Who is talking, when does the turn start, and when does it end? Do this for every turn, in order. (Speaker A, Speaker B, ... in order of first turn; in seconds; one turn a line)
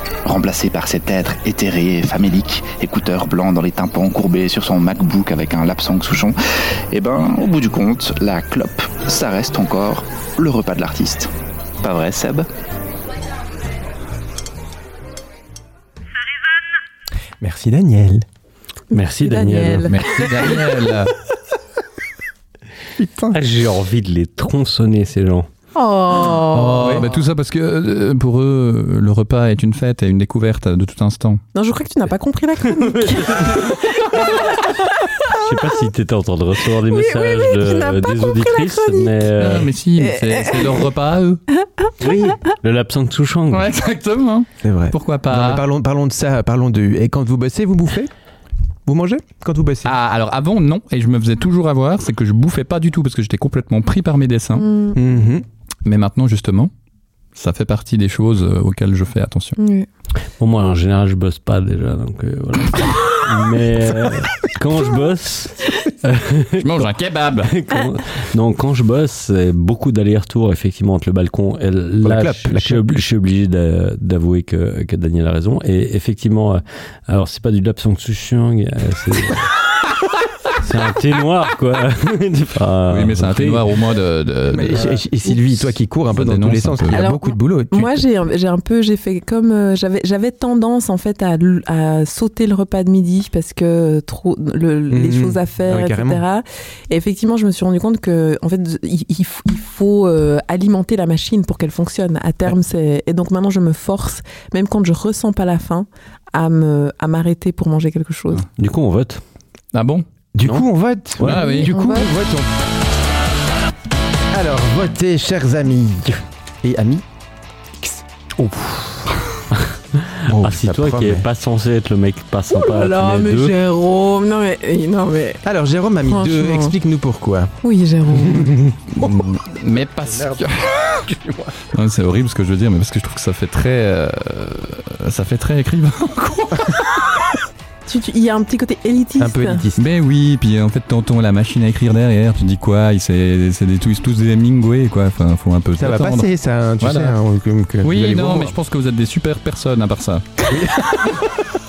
Speaker A: 0.2-6.4
Speaker A: 6.9-11.3
Speaker A: 11.8-12.5
Speaker B: 17.4-18.2
Speaker C: 18.9-19.9
Speaker D: 18.9-20.0
Speaker E: 19.9-21.1
Speaker B: 23.0-23.4
Speaker C: 23.3-25.5
Speaker D: 25.7-27.0
Speaker E: 26.5-31.4
Speaker B: 26.8-27.1
Speaker D: 31.5-35.5
Speaker C: 32.8-33.6
Speaker C: 35.3-39.7
Speaker D: 36.9-39.1
Speaker E: 39.4-41.4
Speaker D: 40.0-40.7
Speaker C: 42.0-43.7
Speaker E: 43.5-45.6
Speaker B: 44.6-48.1
Speaker B: 48.9-49.9
Speaker E: 49.8-54.7
Speaker D: 54.5-55.0
Speaker B: 54.9-55.4
Speaker E: 55.8-56.7
Speaker E: 57.3-59.5
Speaker D: 59.6-59.9
Speaker C: 60.4-66.9
Speaker E: 66.6-67.5
Speaker C: 67.4-79.4
Speaker B: 72.0-73.0
Speaker C: 80.6-83.7
Speaker E: 82.9-84.9
Speaker B: 84.5-88.0
Speaker E: 86.1-87.0
Speaker D: 86.9-108.4
Speaker B: 94.9-96.2
Speaker C: 108.6-109.2
Speaker E: 109.7-110.0
Speaker B: 110.3-112.5
Speaker C: 111.2-111.6
Speaker D: 111.3-112.1
Speaker B: 114.3-117.0
Speaker C: 118.4-118.8
Speaker C: 119.6-123.5
Speaker B: 120.3-121.2
Speaker D: 122.5-125.4
Speaker B: 125.4-127.5
Speaker D: 126.1-126.7
Speaker D: 127.6-128.5
Speaker B: 128.2-129.1
Speaker E: 128.9-130.7
Speaker B: 130.1-130.4
Speaker E: 131.7-136.8
Speaker D: 137.9-139.6
Speaker B: 139.2-139.8
Speaker E: 139.8-146.3
Speaker B: 145.8-148.5
Speaker E: 146.8-147.2
Speaker E: 147.8-150.2
Speaker B: 150.5-151.1